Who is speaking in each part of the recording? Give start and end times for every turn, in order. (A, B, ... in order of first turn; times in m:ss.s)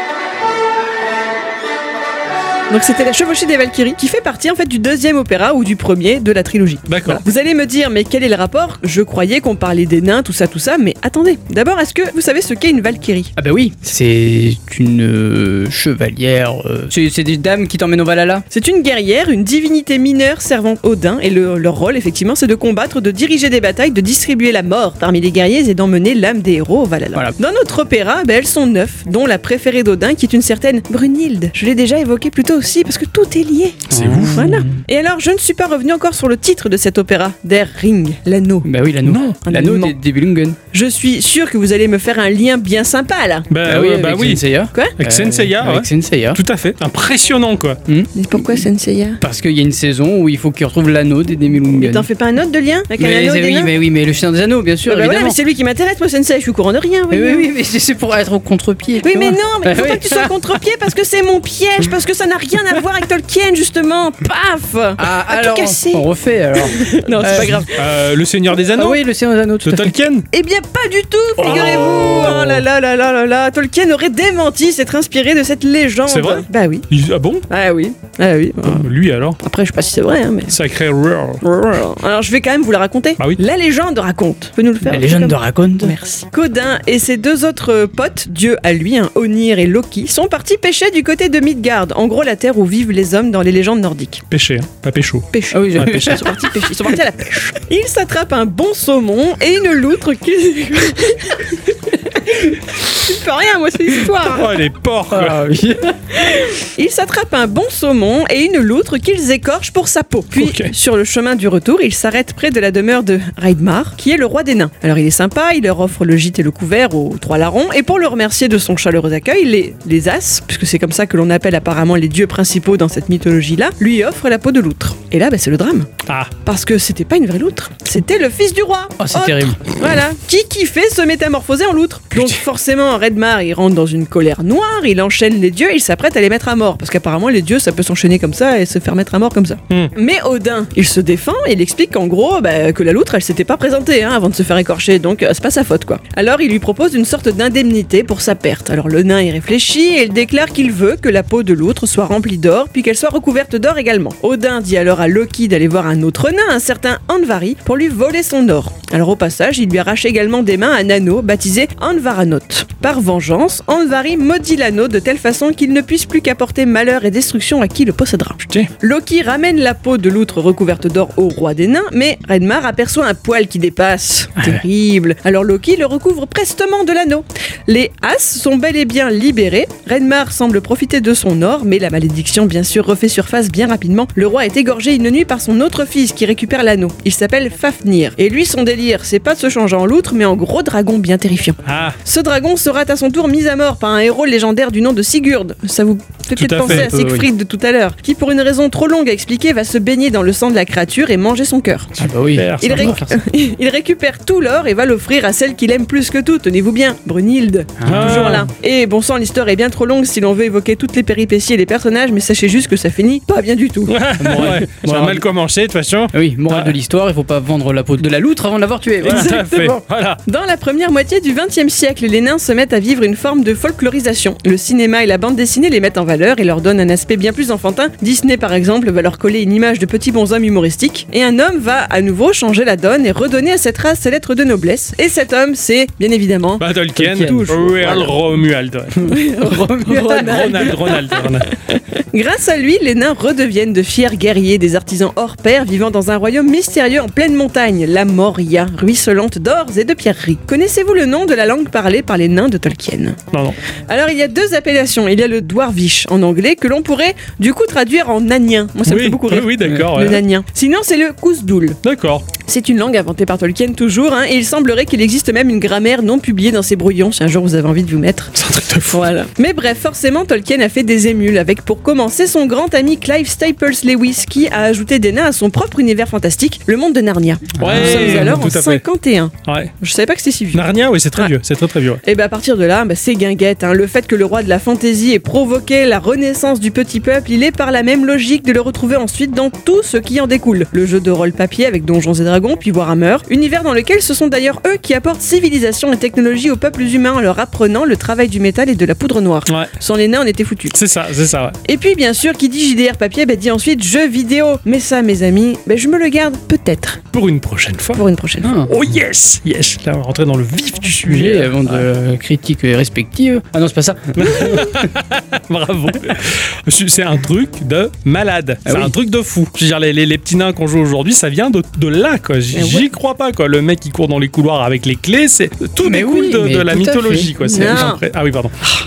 0:02.7-0:13.3 A
0:06.9-0:07.2 B
0:13.4-0:18.4 C
0:18.5-0:38.7 A
0:33.9-0:34.7 C
0:33.9-0:34.7 B
0:38.6-0:40.6 C
0:39.0-0:39.4 B
0:39.4-0:40.0 A
0:40.7-0:43.5 A
0:43.5-0:44.4 B
0:43.6-0:46.4 C
0:45.0-0:47.8 B
0:47.9-0:48.6 C
0:48.2-0:49.2 A
0:49.2-0:52.1 C
0:51.7-0:53.7 A
0:53.0-0:55.4 C
0:54.9-0:57.5 A
0:57.1-1:00.3 C
0:59.0-1:06.1 A
1:05.0-1:07.6 C
1:06.6-1:07.8 A
1:07.2-1:09.0 B
1:08.7-1:10.0 C
1:09.6-1:10.3 B
1:10.3-1:16.9 A
1:11.4-1:12.1 C
1:11.4-1:12.6 B
1:16.1-1:17.4 B
1:17.5-1:18.9 A
1:18.6-1:19.4 B
1:19.4-1:20.6 A
1:20.5-1:21.4 B
1:21.4-1:34.2 A
1:24.8-1:26.0 C
1:34.3-1:36.2 B
1:35.3-1:44.6 A
1:35.5-1:36.9 C
1:44.2-1:45.4 B
1:45.1-1:46.1 C
1:46.1-2:05.9 A
1:50.4-1:50.7 B
2:06.1-2:06.3 B
2:06.4-3:22.0 A
2:09.0-2:09.6 C
3:11.6-3:12.0 B
3:16.4-3:16.9 B
3:16.6-3:17.3 C
3:22.0-3:23.2 C
3:22.3-3:23.0 B
3:22.6-3:34.0 A
3:27.8-3:28.5 C
3:27.9-3:28.5 B
3:33.9-3:36.8 B
3:34.2-3:35.2 C
3:36.1-3:39.8 C
3:39.0-3:40.2 B
3:39.0-3:56.7 A
3:56.6-3:59.0 B
3:57.0-3:58.1 C
3:57.5-3:58.1 A
3:59.0-4:00.7 C
3:59.0-4:13.2 A
4:00.1-4:01.5 B
4:13.3-4:13.6 B
4:13.9-4:21.8 A
4:18.9-4:20.2 B
4:21.8-4:22.3 B
4:22.4-4:28.3 A
4:28.4-4:29.0 B
4:28.9-4:40.6 A
4:37.6-4:38.5 C
4:37.6-4:38.8 B
4:39.5-4:39.7 B
4:40.5-4:42.0 B
4:42.0-5:00.8 A
5:00.7-5:01.6 B
5:01.6-5:07.0 A
5:07.1-5:08.0 B
5:08.0-5:08.5 A
5:08.4-5:08.7 C
5:08.7-5:11.9 B
5:11.0-5:14.9 C
5:14.2-5:28.5 B
5:18.7-5:19.0 C
5:22.5-5:22.9 A
5:25.8-5:27.9 C
5:27.4-5:28.0 A